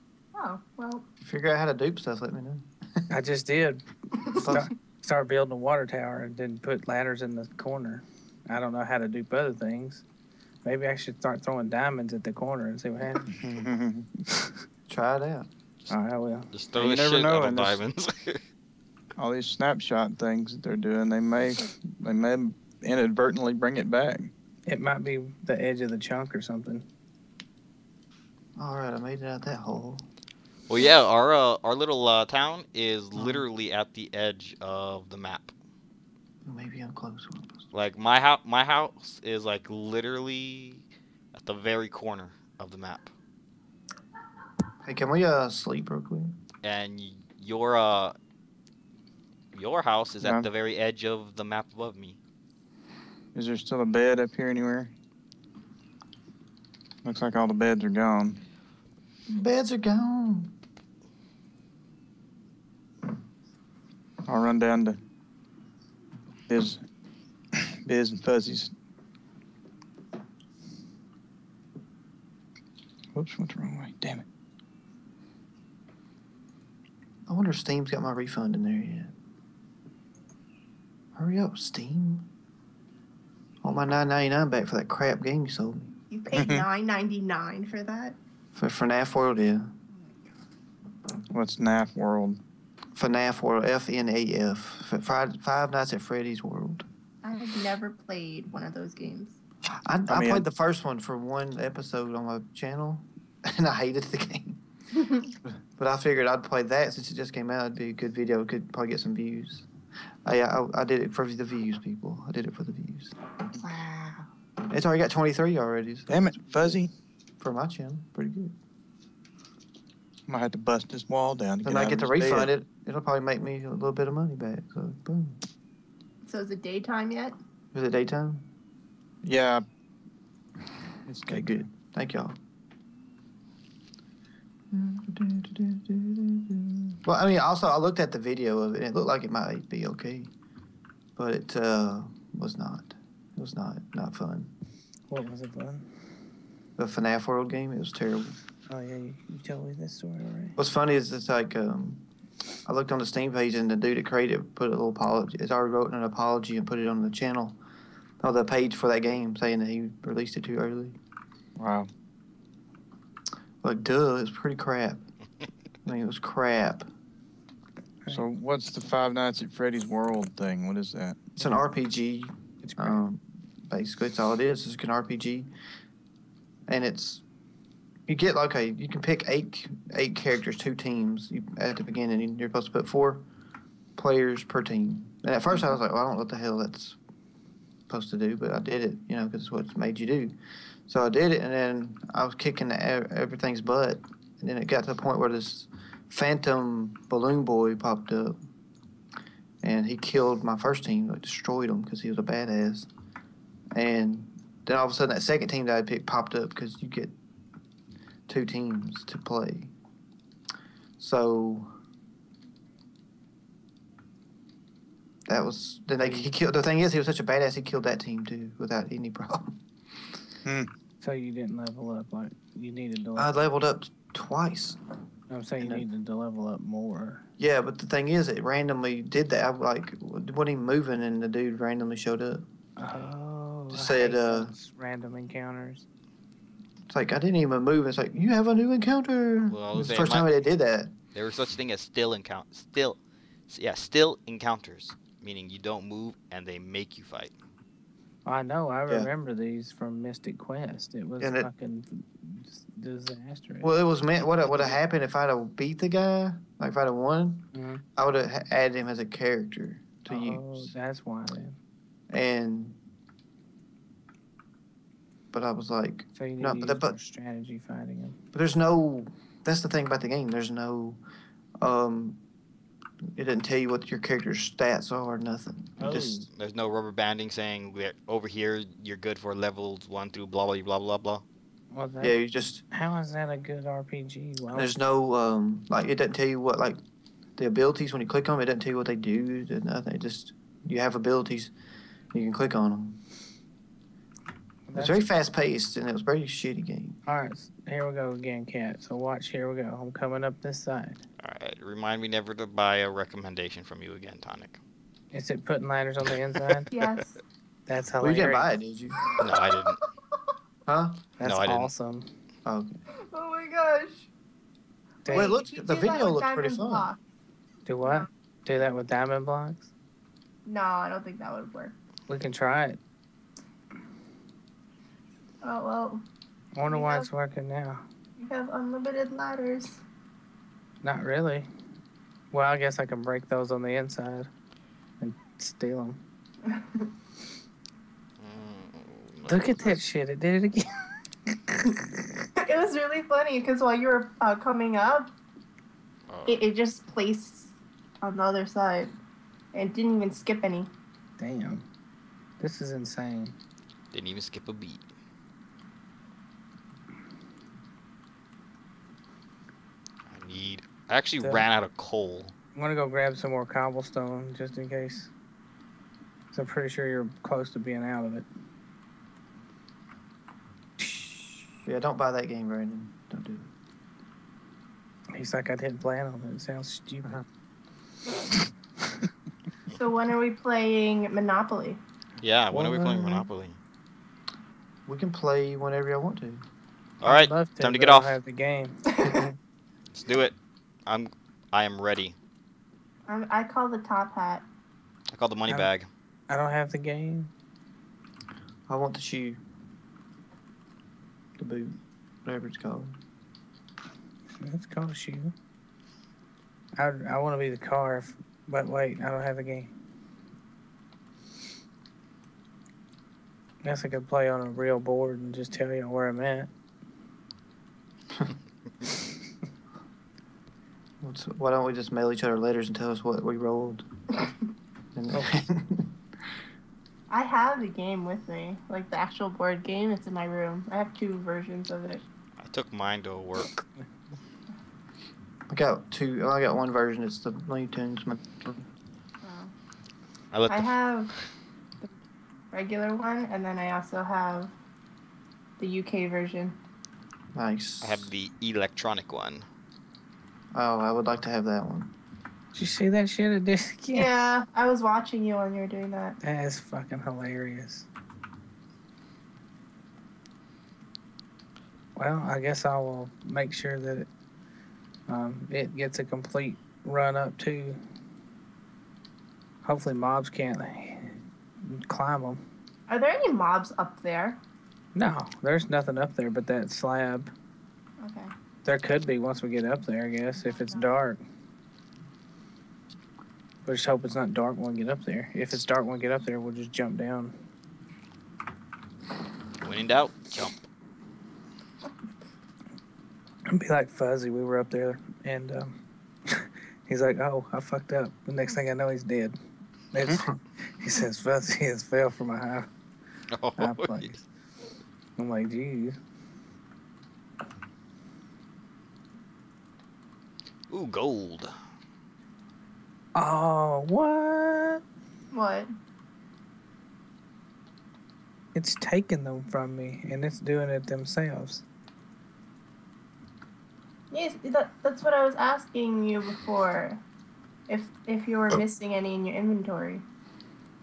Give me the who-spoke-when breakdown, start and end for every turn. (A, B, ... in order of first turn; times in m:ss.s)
0:00.3-0:01.0 A
0:01.2-0:03.0 B
0:03.1-0:10.0 C
0:04.4-0:04.7 B
0:10.6-0:13.3 C
0:13.3-0:14.2 D
0:14.9-0:15.5 B
0:15.9-0:16.5 C
0:16.5-0:18.4 E
0:16.8-0:17.8 D
0:19.2-0:24.3 D
0:24.7-0:26.9 C
0:28.6-0:30.0 B
0:30.7-0:35.5 E
0:33.2-0:33.4 B
0:36.4-0:37.7 B
0:37.7-0:43.1 E
0:44.8-0:46.4 B
0:46.6-0:48.2 E
0:49.5-0:52.2 E
0:50.2-0:50.5 D
0:53.3-0:54.9 D
0:57.0-0:58.4 D
0:59.3-1:00.5 B
1:04.2-1:05.0 D
1:06.5-1:06.8 D
1:07.5-1:08.7 D
1:13.1-1:14.2 D
1:17.3-1:19.1 B
1:21.2-1:22.3 B
1:23.6-1:26.0 B
1:26.1-1:28.2 A
1:26.3-1:26.7 D
1:28.6-1:29.8 B
1:31.3-1:32.4 D
1:33.0-1:36.9 B
1:37.2-1:39.4 A
1:39.8-1:44.6 B
1:40.1-1:40.5 D
1:45.0-1:45.3 A
1:45.8-1:49.7 B
1:50.2-1:53.2 B
1:53.6-1:54.3 A
1:54.7-1:56.8 B
1:56.1-1:56.9 D
1:57.4-1:58.5 B
2:00.3-2:02.5 D
2:01.6-2:05.4 B
2:06.3-2:07.4 A
2:07.7-2:08.5 B
2:09.2-2:09.6 D
2:11.1-2:11.7 D
2:11.2-2:12.4 B
2:14.7-2:20.3 B
2:21.2-2:24.5 B
2:25.1-2:25.9 C
2:26.8-2:28.4 B
2:28.7-2:30.6 C
2:30.6-2:32.0 B
2:32.7-2:37.6 B
2:38.2-2:41.0 B
2:41.6-2:41.9 D
2:43.6-2:45.0 B
2:45.8-2:46.9 B
2:48.1-2:51.3 D
2:51.4-2:55.5 B
2:52.6-2:53.0 C
2:56.7-2:57.2 B
2:58.1-3:03.3 B
3:04.0-3:07.0 B
3:07.9-3:10.4 B
3:10.9-3:18.4 B
3:19.6-3:22.9 B
3:23.7-3:27.2 B
3:28.3-3:29.7 B
3:31.0-3:31.8 B
3:35.3-3:39.6 B
3:36.0-3:36.3 C
3:40.4-3:40.7 D
3:41.0-3:43.3 C
3:43.2-3:44.8 B
3:45.3-3:47.2 C
3:47.4-3:52.4 B
3:52.8-3:55.9 C
3:53.7-3:54.5 B
3:56.9-4:00.9 B
3:59.5-4:00.3 E
4:01.1-4:07.3 E
4:08.2-4:13.7 C
4:11.2-4:11.5 B
4:13.6-4:20.7 B
4:17.5-4:17.8 C
4:20.1-4:21.6 C
4:22.1-4:22.8 B
4:25.3-4:27.0 B
4:26.2-4:28.2 C
4:28.3-4:31.0 B
4:31.6-4:32.2 B
4:33.2-4:36.2 B
4:35.8-4:36.3 C
4:36.3-4:41.2 E
4:41.7-4:42.2 C
4:42.0-4:42.6 B
4:42.7-4:44.7 C
4:44.5-4:46.8 B
4:47.4-4:51.5 B
4:52.1-4:53.0 B
4:54.7-4:55.1 C
4:54.7-4:57.0 B
4:57.1-5:01.0 C
5:01.2-5:04.6 E
5:05.1-5:06.7 C
5:06.7-5:07.2 A
5:07.7-5:08.5 C
5:08.0-5:09.1 B
5:09.2-5:09.8 E
5:10.7-5:11.1 B
5:11.2-5:12.1 C
5:11.2-5:11.7 E
5:12.5-5:12.8 B
5:13.0-5:14.1 A
5:15.0-5:15.4 C
5:15.1-5:17.0 A
5:15.1-5:16.9 B
5:17.7-5:19.7 C
5:17.8-5:18.1 A
5:20.4-5:21.8 A
5:22.1-5:22.8 C
5:25.4-5:26.0 A
5:26.6-5:27.8 C
5:26.7-5:27.1 A
5:28.2-5:29.8 A
5:30.8-5:31.5 C
5:32.3-5:34.3 C
5:35.0-5:36.0 C
5:36.5-5:36.9 A
5:38.2-5:39.8 E
5:39.3-5:42.2 C
5:42.4-5:45.1 A
5:46.1-5:46.5 E
5:46.3-5:48.9 A
5:49.5-5:50.7 A
5:51.2-5:51.7 C
5:52.4-5:53.4 C
5:53.9-5:54.8 E
6:00.1-6:02.3 E
6:02.6-6:05.1 C
6:06.3-6:08.3 C
6:10.8-6:11.5 C
6:11.6-6:13.5 B
6:15.1-6:17.2 C
6:19.7-6:21.8 A
6:22.2-6:23.6 E
6:22.5-6:23.3 C
6:24.9-6:26.4 B
6:27.0-6:28.2 E
6:27.0-6:29.4 C
6:29.9-6:30.4 E
6:30.9-6:32.2 E
6:33.1-6:34.4 A
6:35.1-6:35.9 E
6:36.3-6:37.3 C
6:38.7-6:39.4 B
6:41.4-6:42.9 B
6:44.4-6:45.3 C
6:46.8-6:49.7 C
6:53.6-6:56.5 C
7:01.0-7:03.9 B
7:04.9-7:05.9 B
7:07.1-7:12.0 A
7:12.4-7:13.6 E
7:15.5-7:18.6 B
7:19.2-7:19.5 A
7:20.3-7:20.7 E
7:20.5-7:21.1 A
7:22.5-7:24.5 A
7:25.6-7:26.6 A
7:27.3-7:28.1 B
7:27.8-7:29.5 E
7:30.5-7:31.9 B
7:32.5-7:34.1 C
7:33.9-7:36.2 A
7:36.2-7:37.9 C
7:42.0-7:44.1 C
7:45.1-7:47.8 C
7:49.6-7:52.4 C
7:52.9-7:54.4 A
7:55.0-7:57.3 C
7:58.0-7:58.3 A
7:58.6-8:01.2 C
8:00.4-8:00.9 A
8:03.6-8:07.3 C
8:09.6-8:10.6 E
8:13.5-8:19.4 C
8:19.9-8:22.7 C
8:23.3-8:24.1 E
8:23.6-8:24.2 C
8:25.2-8:26.0 C
8:30.7-8:31.5 E
8:33.2-8:34.8 C
8:35.3-8:35.7 A
8:38.5-8:41.6 C
8:44.1-8:47.0 A
8:47.7-8:50.0 A